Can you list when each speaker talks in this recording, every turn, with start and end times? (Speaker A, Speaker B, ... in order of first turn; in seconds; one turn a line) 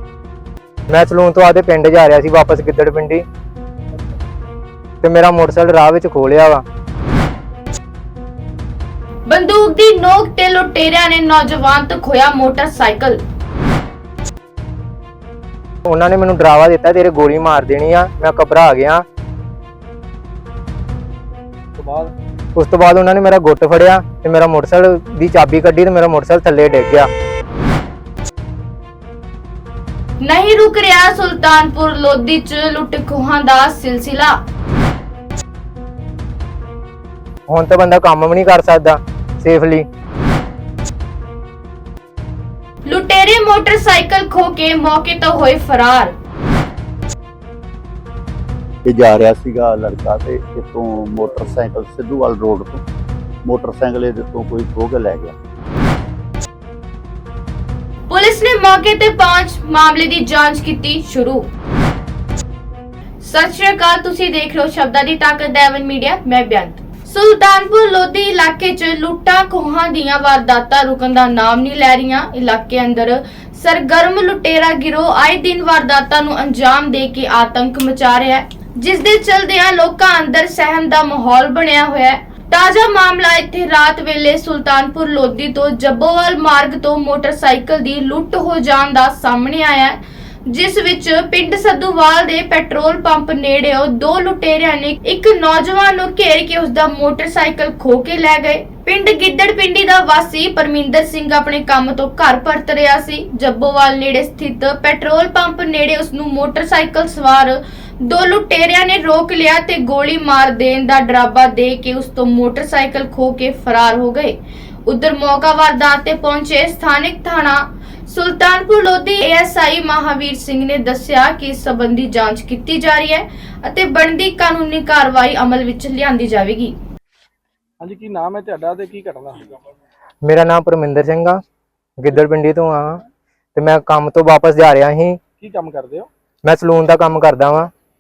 Speaker A: 0.9-3.2
Speaker A: 5.0-6.6
Speaker B: 9.3-13.2
Speaker A: 15.9-19.0
Speaker C: 21.8-22.1
Speaker A: 22.6-27.1
Speaker B: 30.2-34.4
Speaker A: 37.5-39.9
Speaker B: 42.9-46.1
Speaker D: 48.9-52.8
Speaker D: 53.5-55.4
Speaker B: 58.1-61.5
Speaker B: 63.2-126.8
Speaker C: 127.8-129.6
Speaker A: 130.2-131.4
Speaker A: 132.0-133.0
Speaker A: 133.6-135.2
Speaker C: 135.4-136.1
Speaker A: 136.4-137.7